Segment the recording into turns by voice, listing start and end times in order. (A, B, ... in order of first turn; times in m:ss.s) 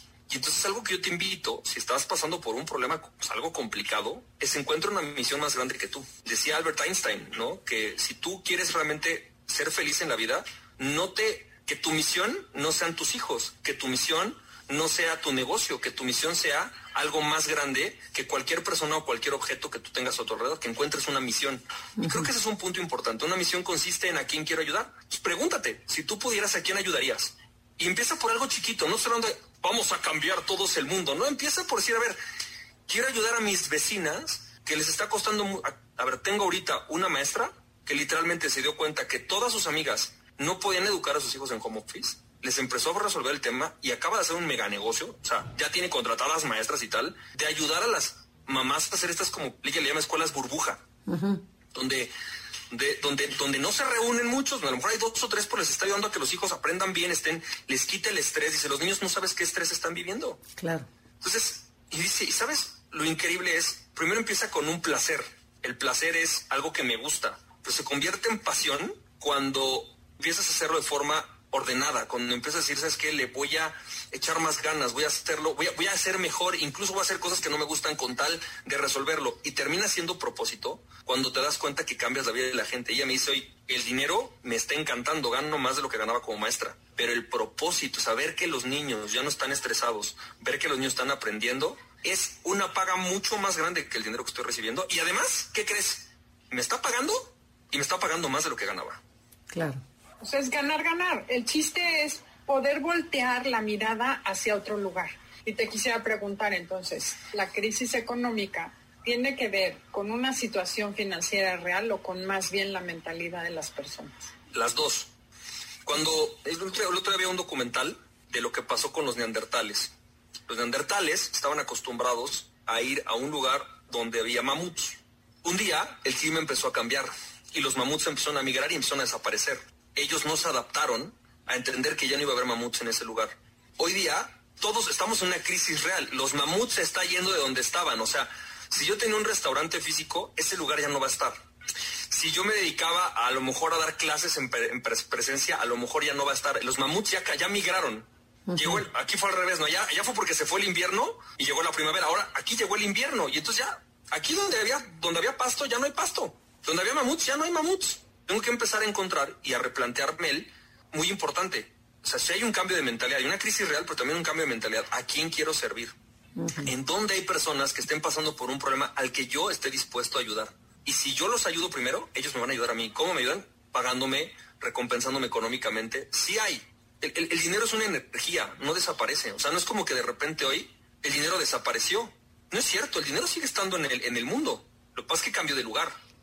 0:00.3-0:32.2 A
0:22.0-0:22.3 B
0:32.9-0:50.8 A
0:51.1-0:51.4 B
0:51.7-0:52.1 A
0:52.7-1:00.4 A
1:00.6-1:00.9 B
1:01.2-1:39.0 A
1:39.5-1:39.8 B
1:40.2-1:54.3 C
1:54.5-1:55.1 A
1:55.8-1:59.9 A
2:00.5-2:21.4 A
2:22.1-2:45.9 A
2:28.5-2:28.8 B
2:46.4-2:46.7 B
2:46.6-3:05.9 A